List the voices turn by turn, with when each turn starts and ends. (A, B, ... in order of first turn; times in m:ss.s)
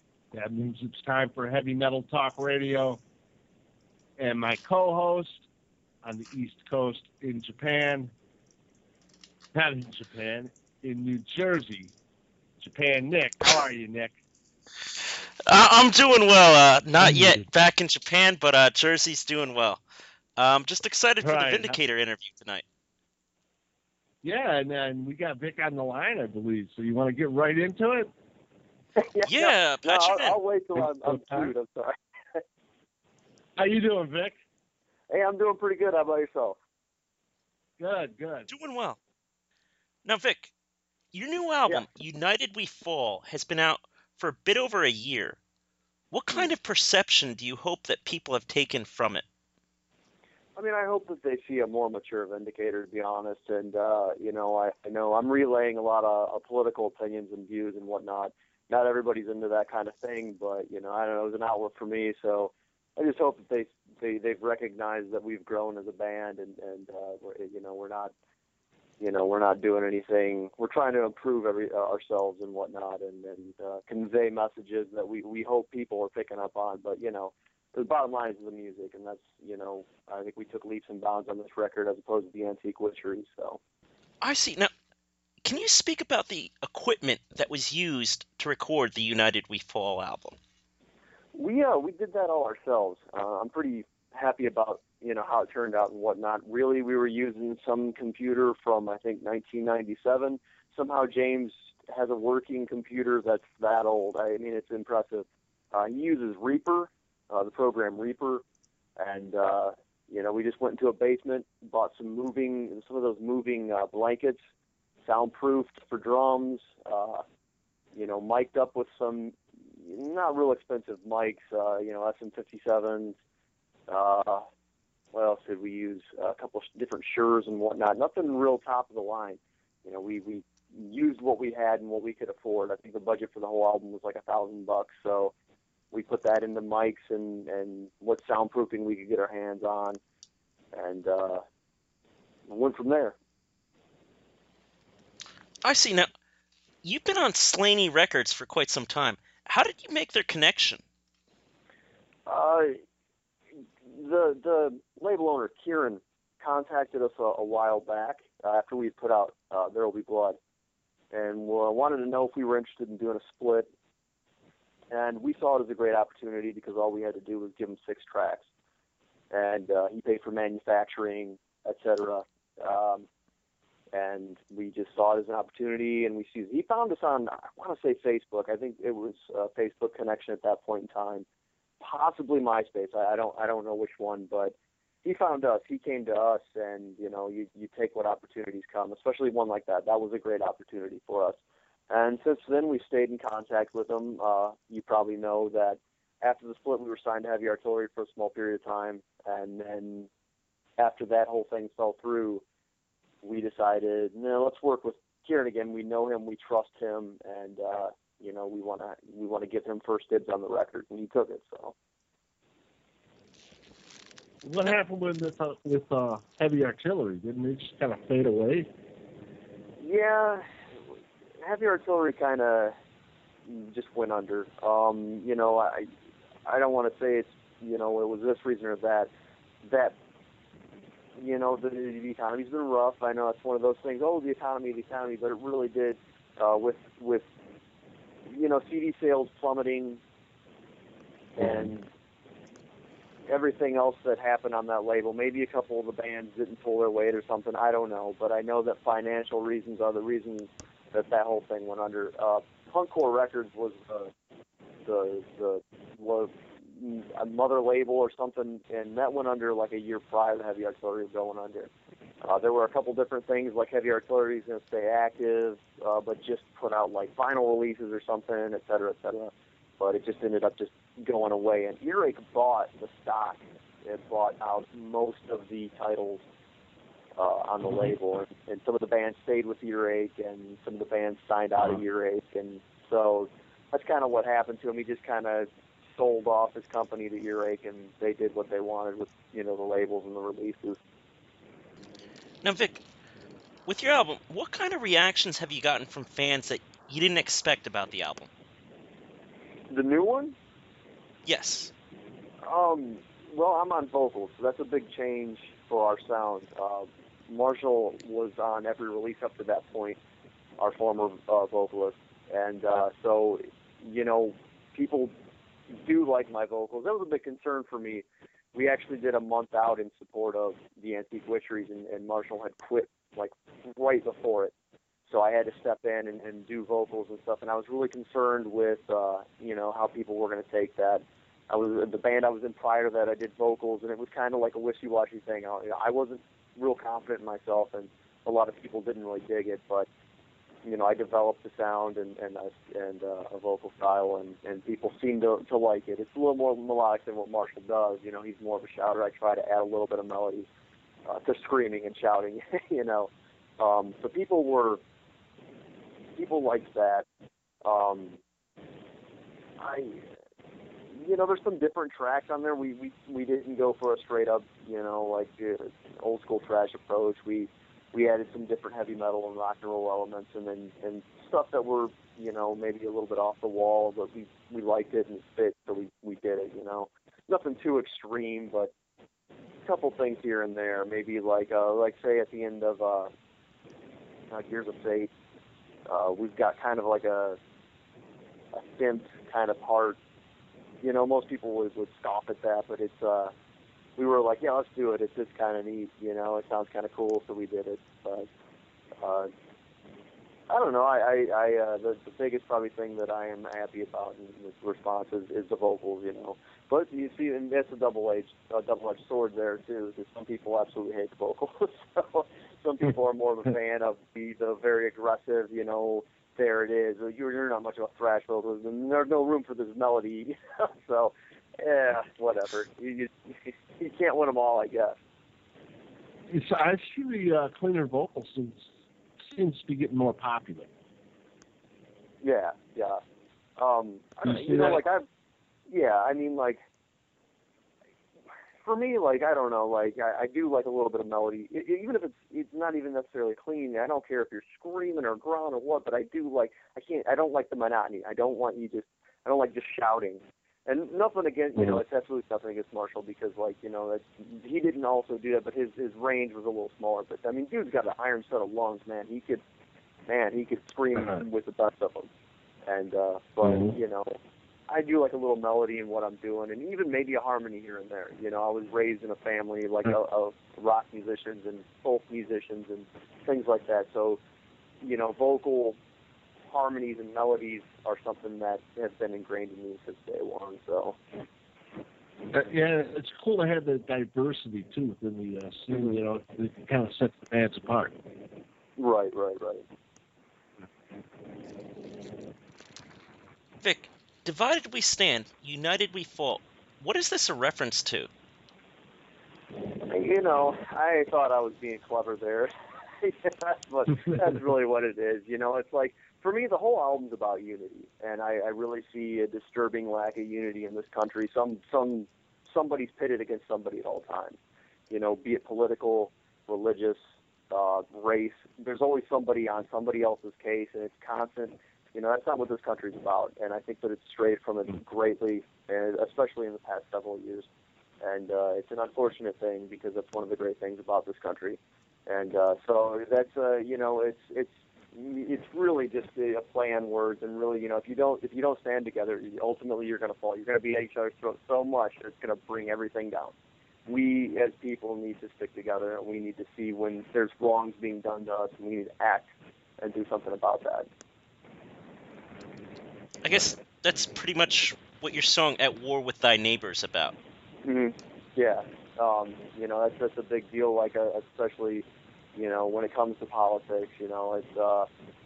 0:00.3-0:03.0 A
0:04.2-0:05.4 A
0:06.0-0:08.1 A
0:09.5-0:11.9 A
0:12.6-0:14.2 A
0:15.4-0:19.8 B
0:17.0-0:17.3 A
0:20.4-0:22.6 B
0:21.2-0:21.8 A
0:24.2-0:28.1 A
0:29.0-0:32.4 C
0:29.3-0:30.4 B
0:31.1-0:31.5 A
0:33.6-0:34.4 A
0:35.1-0:36.6 C
0:37.8-0:38.5 A
0:38.5-0:39.0 B
0:40.0-0:40.5 B
0:41.1-0:45.4 B
0:46.1-0:49.2 B
0:50.6-1:08.1 C
1:09.0-1:23.6 C
1:24.2-1:24.7 B
1:25.4-1:30.4 B
1:31.3-1:48.4 C
1:49.0-1:54.4 C
1:55.0-1:57.2 C
1:57.9-2:03.2 C
2:03.9-2:04.5 C
2:05.1-2:15.3 C
2:15.9-2:20.0 C
2:20.7-2:21.4 C
2:22.5-2:23.2 C
2:25.6-2:26.1 B
2:26.8-2:30.8 B
2:32.2-2:32.8 C
2:33.8-2:40.4 C
2:41.1-2:43.7 C
2:44.9-2:48.5 C
2:49.3-2:53.0 C
2:53.9-3:01.2 C
3:01.8-3:11.4 C
3:11.9-3:20.1 C
3:20.8-3:22.4 C
3:23.2-3:31.7 C
3:34.4-3:38.7 A
3:39.8-3:40.5 C
3:41.4-3:42.7 C
3:43.4-3:45.9 C
3:46.4-3:49.1 C
3:49.6-3:50.0 C
3:51.2-3:57.2 C
3:58.3-4:00.0 C
4:01.4-4:01.9 C
4:03.3-4:14.1 C
4:14.8-4:21.7 C
4:22.2-4:36.2 C
4:37.2-4:50.8 C
4:52.4-4:52.8 B
4:53.7-4:58.3 B
4:59.7-5:00.4 C
5:01.2-5:01.7 B
5:02.4-5:10.0 C
5:10.6-5:15.1 C
5:15.7-5:18.0 C
5:18.5-5:24.5 C
5:25.1-5:39.9 C
5:40.6-5:50.5 C
5:51.1-5:54.8 C
5:56.2-5:57.0 C
5:57.6-5:58.2 C
5:59.6-6:00.0 C
6:00.9-6:18.7 C
6:19.6-6:23.1 C
6:24.3-6:25.1 C
6:25.8-6:27.4 C
6:28.5-6:30.0 C
6:30.8-6:33.3 C
6:34.0-6:38.3 C
6:39.0-6:39.3 C
6:40.5-7:05.0 C
7:06.3-7:08.6 A
7:09.2-7:10.7 A
7:12.2-7:13.0 C
7:13.6-7:15.0 C
7:14.2-7:14.8 A
7:15.7-7:16.6 C
7:18.6-7:39.4 C
7:40.1-7:42.1 C
7:42.6-7:44.2 C
7:43.4-7:43.7 A
7:44.7-7:54.2 C
7:54.8-7:55.8 C
7:56.5-8:01.0 C
8:02.3-8:07.9 A
8:08.8-8:09.6 C
8:13.6-8:18.1 B
8:19.8-8:34.4 C
8:34.9-8:47.5 C
8:48.0-9:03.3 C
9:03.8-9:10.9 C
9:13.2-9:17.1 B
9:17.6-9:21.8 C
9:22.4-9:24.9 C